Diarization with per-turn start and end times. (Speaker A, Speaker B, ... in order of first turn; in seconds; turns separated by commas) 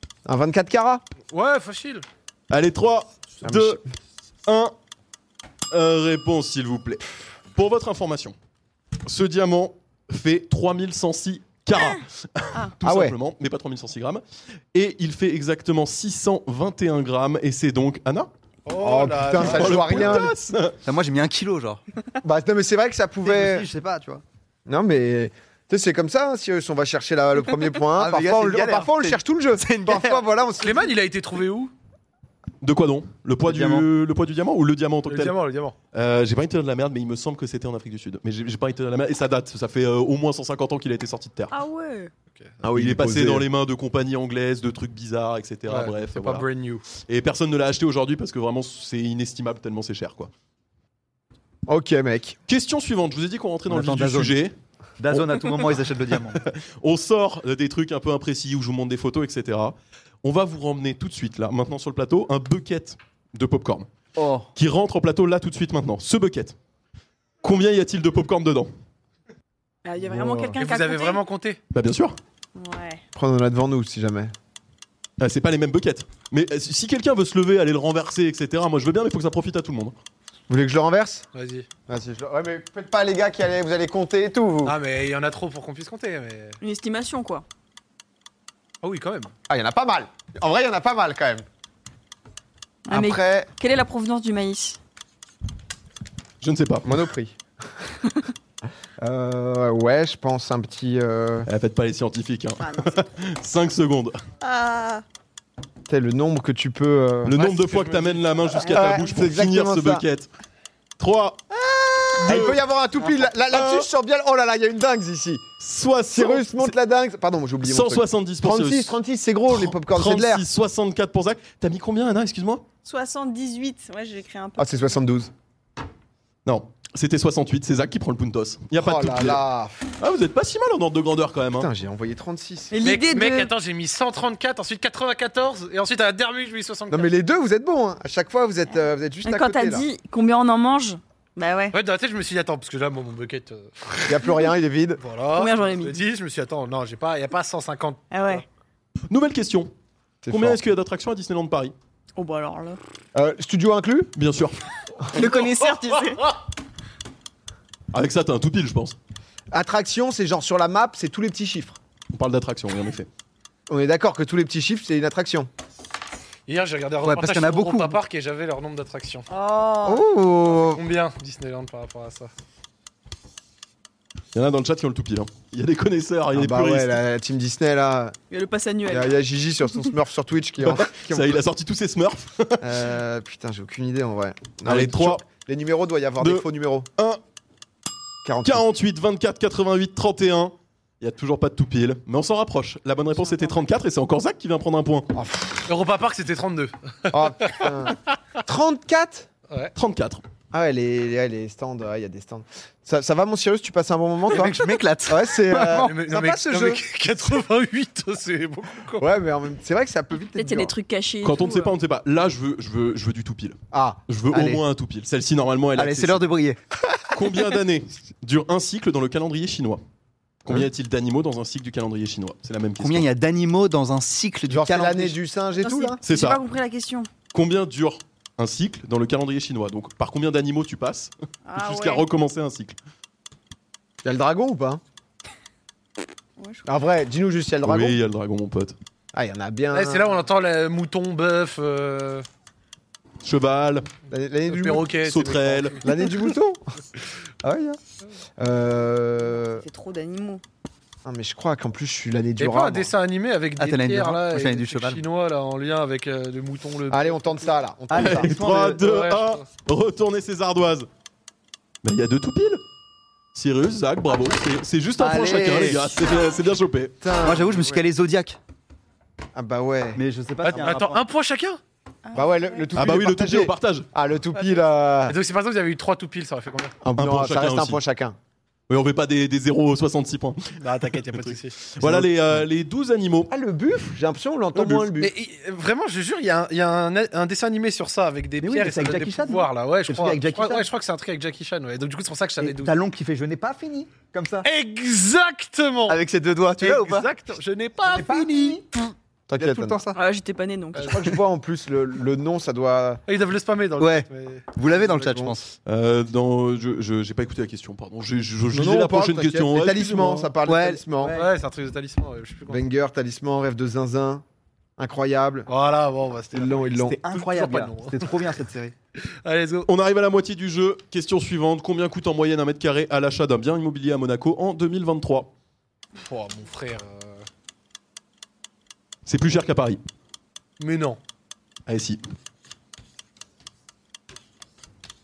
Speaker A: 0.2-1.0, Speaker B: 1.3-2.0, Speaker C: 2.5-3.8, Speaker A: 3.4-3.8, Speaker C: 4.5-4.7, Speaker C: 5.7-8.3, Speaker C: 9.1-14.2, Speaker A: 12.8-13.2, Speaker C: 14.7-18.3, Speaker B: 18.6-20.1, Speaker A: 18.8-20.4, Speaker C: 19.3-20.8, Speaker D: 20.8-21.8, Speaker A: 22.2-23.7, Speaker D: 23.2-24.2, Speaker A: 24.7-30.9, Speaker D: 27.9-30.3, Speaker B: 30.6-31.7, Speaker C: 32.6-35.4, Speaker D: 33.4-33.9, Speaker B: 35.1-35.7, Speaker C: 35.9-41.5, Speaker E: 41.5-42.1, Speaker A: 42.6-43.5, Speaker C: 42.7-46.5, Speaker B: 45.7-46.8, Speaker C: 47.0-50.3, Speaker A: 51.7-52.4, Speaker C: 52.5-54.5, Speaker D: 53.7-54.4, Speaker D: 55.0-56.4, Speaker C: 55.1-63.9, Speaker D: 64.2-64.5, Speaker C: 64.5-66.5, Speaker C: 67.4-68.7, Speaker E: 69.8-71.2, Speaker A: 70.1-70.5, Speaker B: 70.6-71.6, Speaker C: 71.7-72.2, Speaker E: 72.5-73.0, Speaker A: 73.1-74.3, Speaker C: 75.2-80.0, Speaker A: 80.5-81.2, Speaker B: 81.3-81.7, Speaker A: 81.9-84.8, Speaker B: 84.6-86.6, Speaker E: 86.6-87.4, Speaker B: 88.8-89.3, Speaker A: 89.5-91.4, Speaker E: 92.9-94.8, Speaker A: 92.9-93.5, Speaker C: 96.4-97.0, Speaker A: 96.8-97.3, Speaker A: 99.0-101.5, Speaker C: 101.5-104.2, Speaker E: 102.6-102.9, Speaker E: 104.4-105.0, Speaker A: 105.9-107.4, Speaker C: 107.2-110.3, Speaker B: 107.4-108.3, Speaker E: 108.6-108.9, Speaker A: 108.6-110.0, Speaker C: 111.0-111.4, Speaker A: 112.1-115.4, Speaker C: 112.2-112.6, Speaker C: 113.5-113.9, Speaker C: 115.6-116.7, Speaker A: 116.1-120.4, Speaker C: 117.6-119.0, Speaker C: 119.5-122.6, Speaker E: 122.8-124.8, Speaker A: 124.6-125.3, Speaker C: 126.4-129.4, Speaker A: 128.8-129.8, Speaker C: 130.0-131.7, Speaker A: 131.5-132.8, Speaker E: 132.7-133.5, Speaker B: 132.8-137.1, Speaker A: 136.9-139.9, Speaker E: 139.2-141.8, Speaker B: 141.7-144.2, Speaker A: 144.0-145.0, Speaker B: 145.0-148.4, Speaker E: 145.3-146.1, Speaker E: 148.1-148.4, Speaker C: 149.1-149.7, Speaker A: 150.2-150.6, Speaker C: 150.3-151.7, Speaker E: 152.1-152.8, Speaker A: 153.1-154.1, Speaker C: 154.2-154.6, Speaker E: 155.0-156.3, Speaker B: 155.2-155.6, Speaker C: 157.9-158.9, Speaker A: 159.5-161.8, Speaker C: 162.1-163.1, Speaker A: 163.7-165.5, Speaker B: 166.5-169.2, Speaker D: 167.0-168.0, Speaker E: 169.3-170.0, Speaker A: 169.8-170.8, Speaker B: 170.6-172.3, Speaker C: 174.3-177.0, Speaker A: 176.3-178.2, Speaker E: 178.3-179.2, Speaker A: 178.9-181.4, Speaker C: 180.6-182.8, Speaker A: 182.6-186.9, Speaker C: 184.6-185.2, Speaker C: 186.2-186.4, Speaker A: 188.2-188.6, Speaker C: 188.4-195.1, Speaker E: 193.2-193.6, Speaker A: 195.1-195.6, Speaker B: 195.7-197.7, Speaker A: 197.1-199.3, Speaker C: 199.8-200.2, Speaker A: 200.5-206.8, Speaker D: 204.3-205.9, Speaker B: 205.7-209.1, Speaker A: 209.0-210.7, Speaker E: 210.4-211.7, Speaker C: 211.2-213.6, Speaker A: 213.7-214.0, Speaker C: 214.1-216.2, Speaker D: 214.3-214.6, Speaker D: 215.8-216.6, Speaker C: 217.1-219.8, Speaker C: 220.4-223.1, Speaker D: 222.8-225.2, Speaker A: 224.5-226.0, Speaker E: 225.6-227.1, Speaker C: 226.0-226.4, Speaker C: 227.3-232.8, Speaker E: 231.5-232.0, Speaker A: 234.0-234.8, Speaker E: 236.4-236.7, Speaker A: 236.7-238.0, Speaker C: 237.6-238.8, Speaker A: 239.1-240.2, Speaker B: 239.7-242.2, Speaker C: 243.2-243.9, Speaker A: 244.1-244.9, Speaker B: 244.5-245.9, Speaker C: 245.0-245.8, Speaker A: 245.8-246.6, Speaker A: 247.4-247.8, Speaker A: 248.4-249.6, Speaker E: 249.5-250.4, Speaker A: 251.0-252.9, Speaker B: 252.4-257.4, Speaker D: 253.6-255.0, Speaker A: 256.9-258.3, Speaker D: 257.9-258.9, Speaker C: 257.9-260.9, Speaker B: 258.8-259.4, Speaker C: 261.8-262.6, Speaker C: 263.3-266.9, Speaker D: 265.0-266.0, Speaker A: 267.0-267.8, Speaker D: 267.2-268.4, Speaker A: 269.4-270.0, Speaker D: 269.9-271.0, Speaker B: 270.4-271.6, Speaker E: 272.1-272.7, Speaker A: 272.1-275.1, Speaker C: 272.8-273.9, Speaker B: 275.1-276.8, Speaker A: 276.8-278.2, Speaker C: 276.9-277.8, Speaker C: 278.7-283.3, Speaker B: 280.6-281.6, Speaker A: 281.8-282.1, Speaker A: 283.3-285.1, Speaker C: 284.5-284.9, Speaker B: 285.0-292.8, Speaker D: 288.4-290.7, Speaker D: 292.4-294.5, Speaker B: 294.4-296.0, Speaker D: 295.9-297.1, Speaker B: 296.6-298.8, Speaker D: 297.9-298.6, Speaker A: 299.3-299.8, Speaker D: 299.4-300.0, Speaker E: 299.9-301.1, Speaker B: 300.8-301.0, Speaker A: 300.8-303.0, Speaker B: 303.1-304.4, Speaker D: 303.8-305.5, Speaker A: 304.9-305.4, Speaker C: 305.6-310.3, Speaker A: 308.5-311.2, Speaker D: 310.4-311.3, Speaker B: 311.1-312.6, Speaker A: 312.5-314.2, Speaker A: 314.8-315.5, Speaker B: 315.5-318.2, Speaker A: 316.3-317.0, Speaker D: 316.8-318.8, Speaker B: 319.0-319.7, Speaker C: 319.7-325.3, Speaker B: 326.0-327.3, Speaker C: 329.1-329.8, Speaker B: 330.6-331.0, Speaker C: 331.7-332.0